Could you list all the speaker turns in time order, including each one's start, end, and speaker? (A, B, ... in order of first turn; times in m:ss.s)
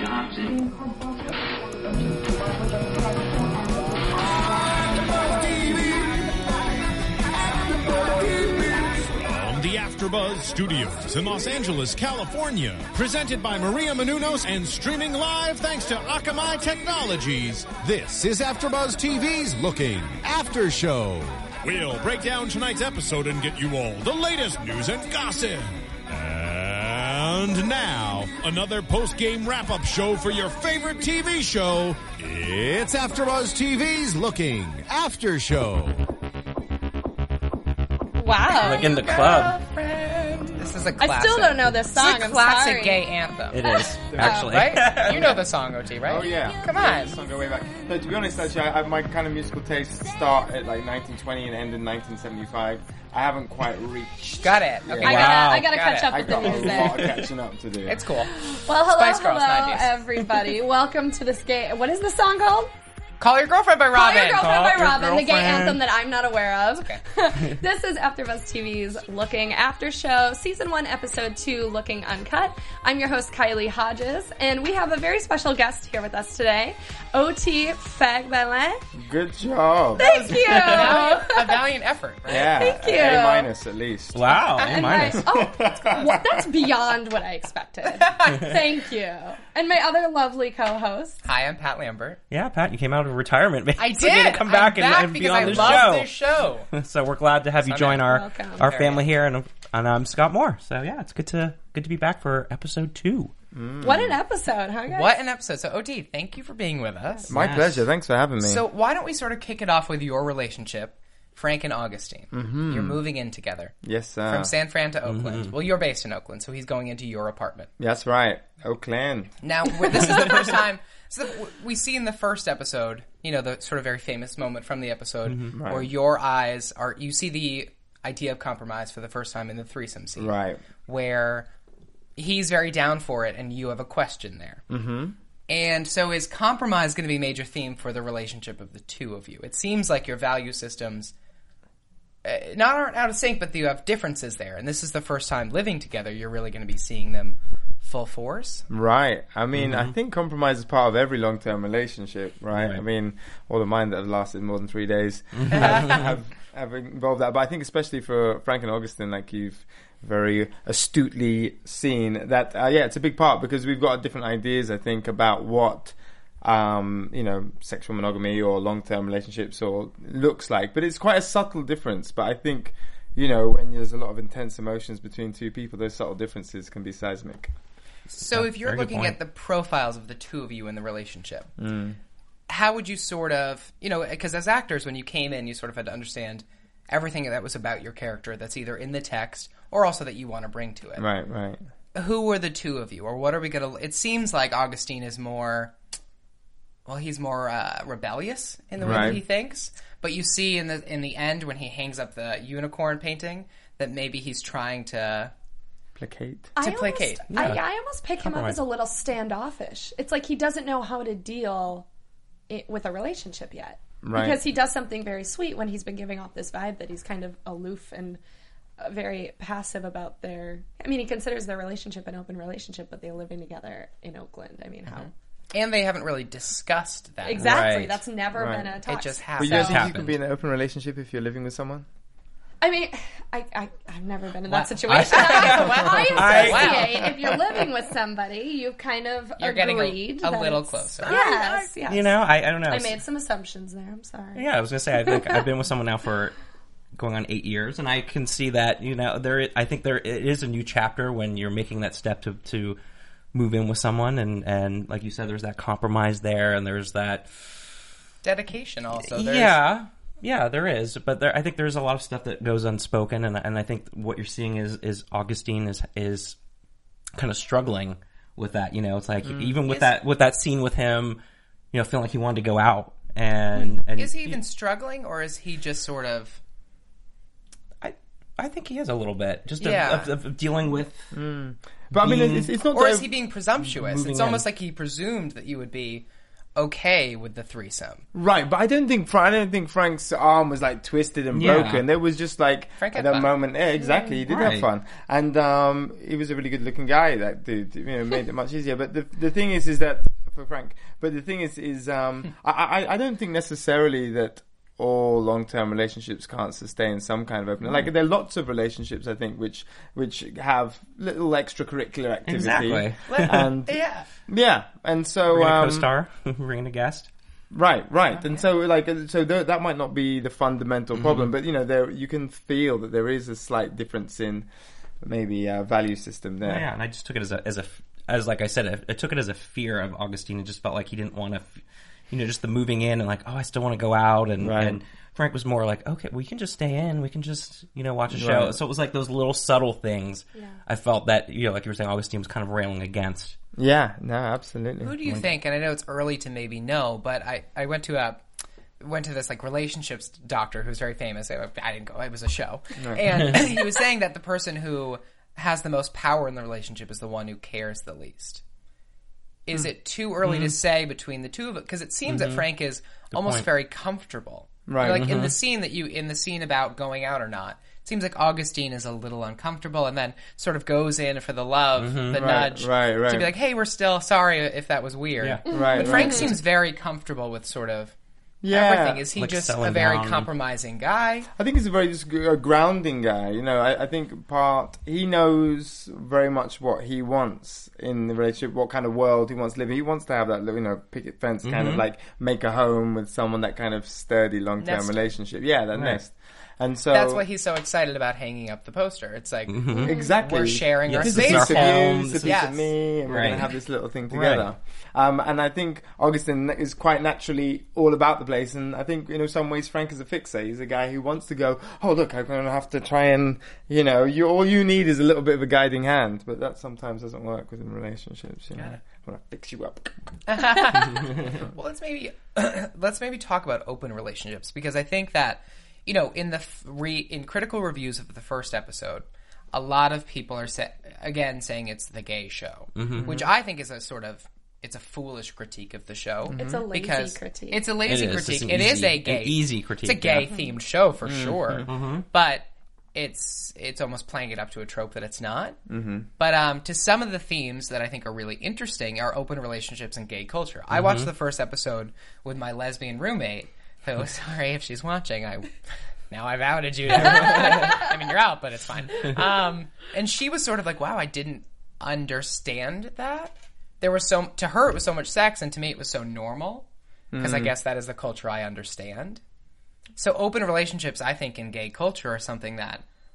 0:04.7-0:06.3 A
0:07.8-0:36.0 A
0:38.2-0:38.9 B
0:38.6-0:39.6 C
0:38.7-0:43.6 D
0:41.0-0:43.0 B
0:43.5-0:45.4 C
0:43.6-0:44.5 B
0:44.2-0:47.1 D
0:45.1-0:45.4 E
0:46.0-0:55.3 E
0:54.4-0:56.5 D
0:55.0-0:57.0 B
0:55.0-0:55.7 C
0:56.1-0:58.0 E
0:56.3-0:57.2 C
0:57.8-0:58.3 D
0:58.3-1:02.7 B
0:58.9-0:59.9 D
1:03.2-1:05.6 D
1:03.9-1:18.8 B
1:05.0-1:05.7 C
1:19.0-1:20.1 E
1:20.0-1:21.6 B
1:20.0-1:21.0 C
1:20.5-1:22.6 D
1:22.3-1:24.2 E
1:22.4-1:23.5 B
1:24.1-1:25.3 C
1:24.6-1:31.2 B
1:25.1-1:26.6 E
1:27.9-1:28.5 D
1:31.2-1:32.2 D
1:32.3-1:36.1 C
1:33.8-1:36.7 D
1:35.4-1:35.8 E
1:36.7-1:43.3 C
1:37.6-1:39.1 D
1:38.0-1:38.7 B
1:43.5-1:44.2 E
1:43.8-1:45.1 B
1:44.9-1:47.3 D
1:47.3-1:48.6 E
1:47.3-1:47.7 C
1:48.4-1:53.7 D
1:52.3-1:53.0 E
1:53.8-1:54.5 E
1:54.3-1:57.7 D
1:55.1-1:55.5 C
1:57.8-1:59.3 E
1:59.4-2:10.3 D
2:05.3-2:05.5 C
2:05.5-2:05.9 E
2:10.2-2:10.6 E
2:10.9-2:11.5 D
2:12.2-2:14.6 D
2:14.7-2:15.1 E
2:15.5-2:21.1 D
2:22.2-2:28.6 D
2:28.7-2:57.5 E
2:29.5-2:29.9 C
2:32.5-2:32.8 C
2:35.4-2:36.1 C
2:35.5-2:36.1 D
2:58.1-3:01.5 D
2:58.2-2:59.2 C
3:01.6-3:02.0 E
3:02.5-3:11.0 D
3:11.0-3:11.6 E
3:11.9-3:15.7 D
3:16.8-3:25.3 D
3:18.8-3:19.2 E
3:18.8-3:19.1 C
3:26.0-3:26.5 E
3:26.6-3:31.8 B
3:26.6-3:27.5 D
3:27.3-3:27.6 C
3:28.2-3:28.6 C
3:32.5-3:38.2 B
3:34.0-3:34.4 E
3:38.8-3:45.1 B
3:44.9-3:47.6 D
3:47.2-3:49.9 B
3:47.4-3:48.0 C
3:48.3-3:48.8 E
3:48.8-3:50.1 D
3:49.4-3:51.8 E
3:49.4-3:50.1 C
3:52.6-4:04.4 B
3:54.5-3:57.0 D
3:54.9-3:57.0 C
3:59.4-4:01.7 D
4:01.9-4:03.0 C
4:04.3-4:06.3 C
4:04.9-4:05.4 B
4:07.0-4:12.8 C
4:13.3-4:17.3 C
4:18.2-4:19.6 D
4:19.0-4:26.4 C
4:27.2-4:31.2 C
4:29.2-4:29.6 E
4:29.7-4:29.9 D
4:31.7-4:34.4 C
4:33.9-4:36.4 D
4:37.8-4:41.1 C
4:39.6-4:40.1 D
4:41.1-4:43.1 E
4:41.9-4:42.5 C
4:42.7-4:48.0 D
4:43.6-4:44.4 C
4:48.1-5:15.9 E
4:51.3-4:51.8 C
4:52.8-4:53.3 D
4:53.8-4:54.2 B
4:54.3-4:54.7 C
5:12.3-5:13.4 C
5:13.1-5:14.1 D
5:15.3-5:17.1 C
5:17.5-5:24.5 E
5:18.2-5:18.4 D
5:20.9-5:21.3 C
5:25.0-5:26.6 E
5:26.4-5:43.4 C
5:34.4-5:34.8 E
5:38.1-5:38.6 E
5:43.6-5:45.3 E
5:44.8-5:48.2 D
5:48.8-5:58.4 D
5:52.8-5:53.3 E
5:59.4-6:17.9 D
6:00.2-6:00.5 C
6:02.1-6:02.4 C
6:03.1-6:03.5 C
6:04.7-6:05.1 E
6:04.9-6:05.3 C
6:11.8-6:12.2 C
6:12.1-6:13.3 E
6:15.5-6:16.3 B
6:15.5-6:16.3 E
6:18.4-6:19.1 E
6:18.5-6:21.3 D
6:19.2-6:20.3 C
6:21.4-6:37.2 E
6:31.4-6:31.8 C
6:34.6-6:34.9 D
6:35.7-6:36.0 C
6:36.9-6:42.7 D
6:39.5-6:39.9 C
6:39.8-6:40.1 B
6:39.8-6:59.9 E
6:40.9-6:42.4 C
6:43.0-6:43.4 C
6:44.1-6:44.4 C
7:00.3-7:25.6 D
7:12.8-7:13.1 C
7:13.0-7:13.3 E
7:16.3-7:16.6 E
7:16.4-7:17.6 B
7:17.8-7:20.3 C
7:21.0-7:21.7 E
7:21.6-7:22.0 C
7:25.7-7:26.1 E
7:26.2-7:35.5 D
7:30.7-7:31.1 C
7:36.1-7:46.7 D
7:37.0-7:37.5 C
7:37.2-7:37.8 B
7:47.1-7:47.5 E
7:47.2-7:49.2 D
7:50.0-7:52.8 D